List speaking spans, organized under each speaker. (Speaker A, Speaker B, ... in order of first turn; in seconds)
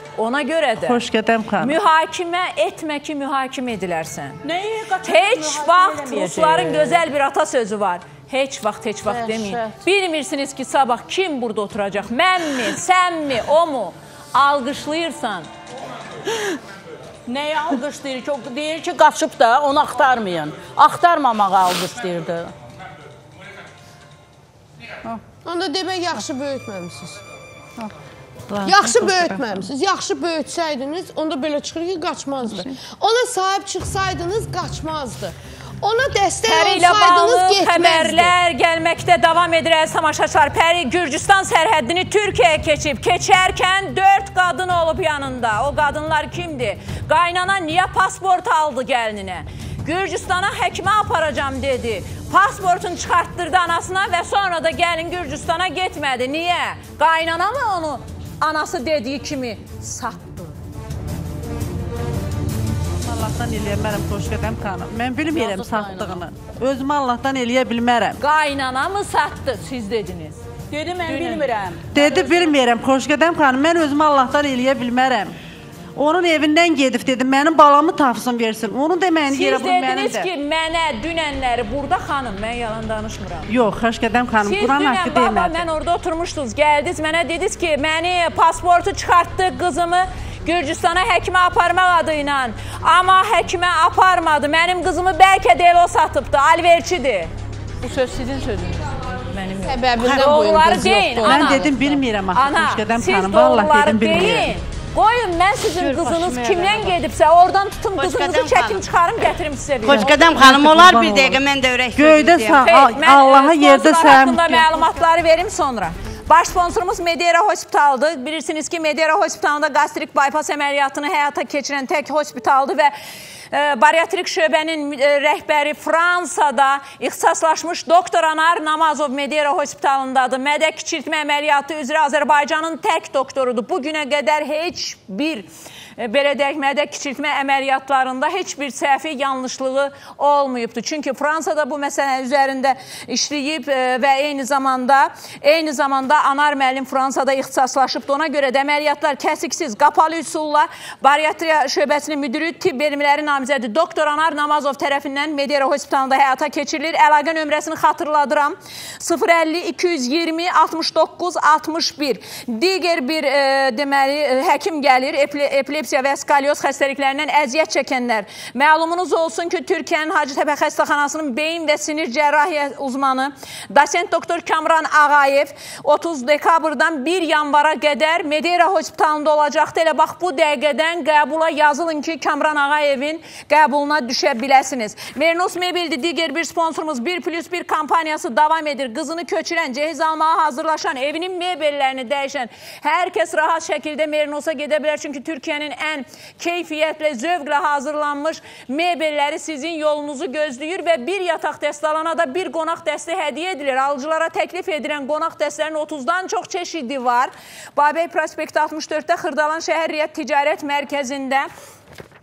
Speaker A: 0.2-1.1, 1.6-4.4, 5.0-15.5, 36.5-60.6, 68.2-70.4, 71.1-71.4, 79.3-83.5, 84.4-110.2, 112.6-122.9, 123.5-211.5
Speaker B: 0.8-1.8, 63.0-68.2, 71.9-75.3, 76.0-80.3, 83.5-85.6, 101.2-104.5, 105.8-106.8, 109.9-111.4, 112.0-114.7
Speaker C: 4.4-7.0, 9.1-9.8, 17.3-22.5, 65.3-66.3, 70.7-72.2
Speaker D: 25.4-27.2, 28.6-38.3, 99.6-101.7
Speaker E: 100.0-100.3, 108.0-108.8, 109.8-112.7